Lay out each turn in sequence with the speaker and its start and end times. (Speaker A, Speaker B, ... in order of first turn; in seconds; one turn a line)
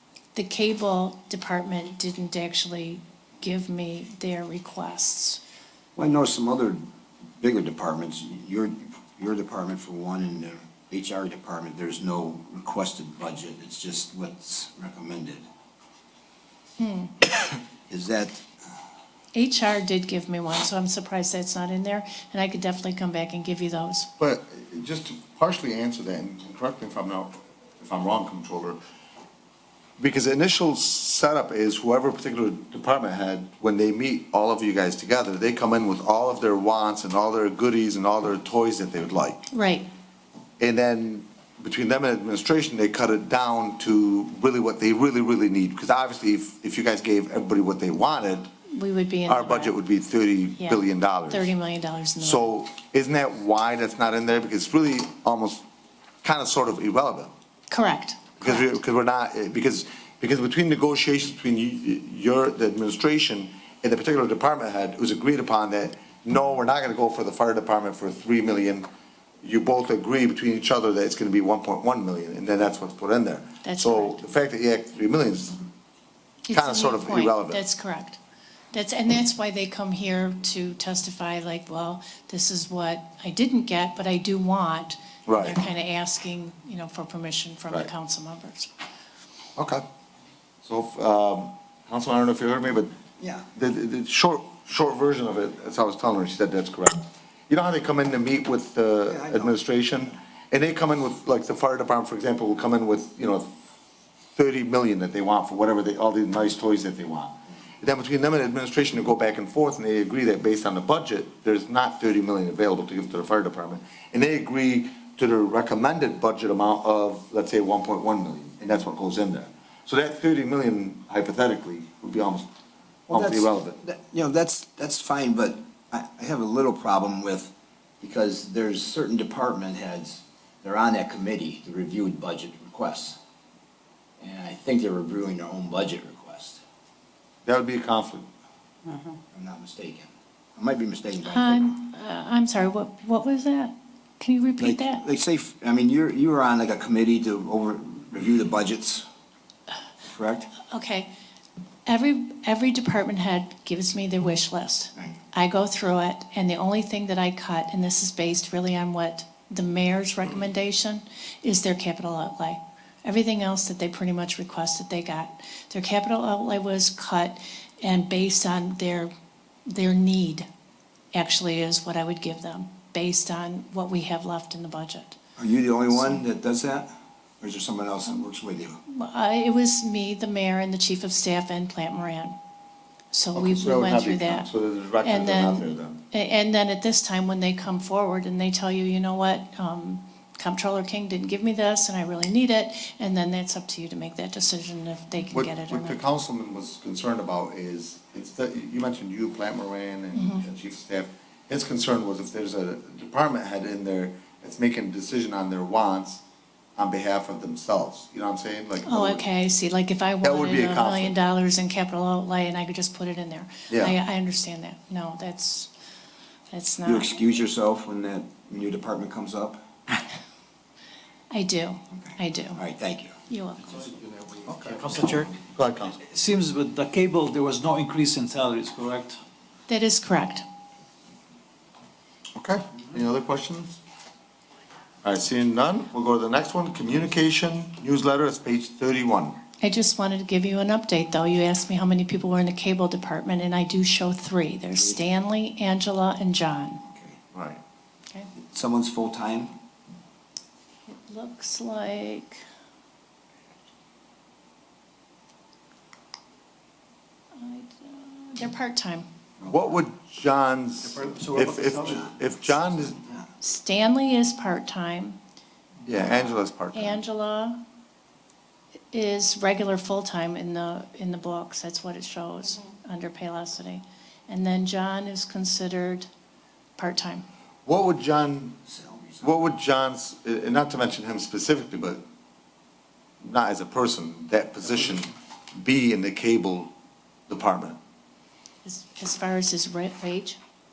Speaker A: 0.3-5.4
Speaker B: 6.0-6.8
Speaker B: 7.4-15.4
Speaker A: 16.8-17.1
Speaker B: 17.9-18.4
Speaker A: 19.3-24.1
Speaker C: 24.2-28.8
Speaker C: 30.0-39.4
Speaker A: 39.5-39.9
Speaker C: 40.6-48.5
Speaker A: 48.7-49.7
Speaker C: 49.3-51.5
Speaker A: 50.6-52.5
Speaker C: 52.2-55.6
Speaker C: 56.2-57.3
Speaker A: 57.7-58.8
Speaker C: 58.4-68.9
Speaker C: 69.4-75.6
Speaker A: 73.6-74.2
Speaker A: 76.5-78.2
Speaker C: 76.5-77.6
Speaker A: 78.7-88.7
Speaker C: 85.3-85.6
Speaker C: 89.6-89.8
Speaker C: 90.6-92.9
Speaker B: 93.2-93.5
Speaker C: 93.5-103.5
Speaker B: 99.1-99.5
Speaker C: 104.3-122.5
Speaker C: 123.1-123.8
Speaker B: 123.1-133.2
Speaker B: 134.2-136.6
Speaker C: 137.4-138.2
Speaker B: 139.3-141.7
Speaker A: 141.3-145.0
Speaker B: 144.6-149.1
Speaker B: 150.1-150.5
Speaker A: 150.7-151.1
Speaker A: 151.9-169.1
Speaker A: 169.7-170.5
Speaker A: 171.1-175.2
Speaker B: 175.4-178.8
Speaker A: 178.9-182.4
Speaker A: 183.1-184.5
Speaker C: 183.3-186.0
Speaker A: 185.0-196.0
Speaker C: 195.3-206.2
Speaker A: 200.1-200.4
Speaker C: 206.8-209.2
Speaker A: 208.8-215.7
Speaker C: 210.2-211.1
Speaker C: 213.7-214.0
Speaker A: 216.5-217.1
Speaker B: 216.9-219.6
Speaker A: 221.3-222.6
Speaker B: 221.9-223.1
Speaker A: 223.3-224.0
Speaker C: 224.5-226.1
Speaker D: 224.7-225.3
Speaker D: 226.1-229.2
Speaker A: 229.7-230.4
Speaker C: 232.4-233.8
Speaker C: 235.0-239.4
Speaker A: 239.6-246.8
Speaker B: 246.9-247.2
Speaker C: 247.3-247.6
Speaker B: 248.5-249.5
Speaker A: 250.9-252.4
Speaker A: 257.4-259.1
Speaker B: 259.4-259.8
Speaker C: 259.5-263.0
Speaker A: 263.4-265.2
Speaker C: 265.9-267.0
Speaker A: 266.7-267.6
Speaker A: 268.9-276.1
Speaker A: 276.8-277.2
Speaker C: 277.7-278.6
Speaker B: 278.7-279.4
Speaker C: 279.2-282.0
Speaker C: 283.2-286.7
Speaker C: 287.3-287.8
Speaker A: 288.6-290.4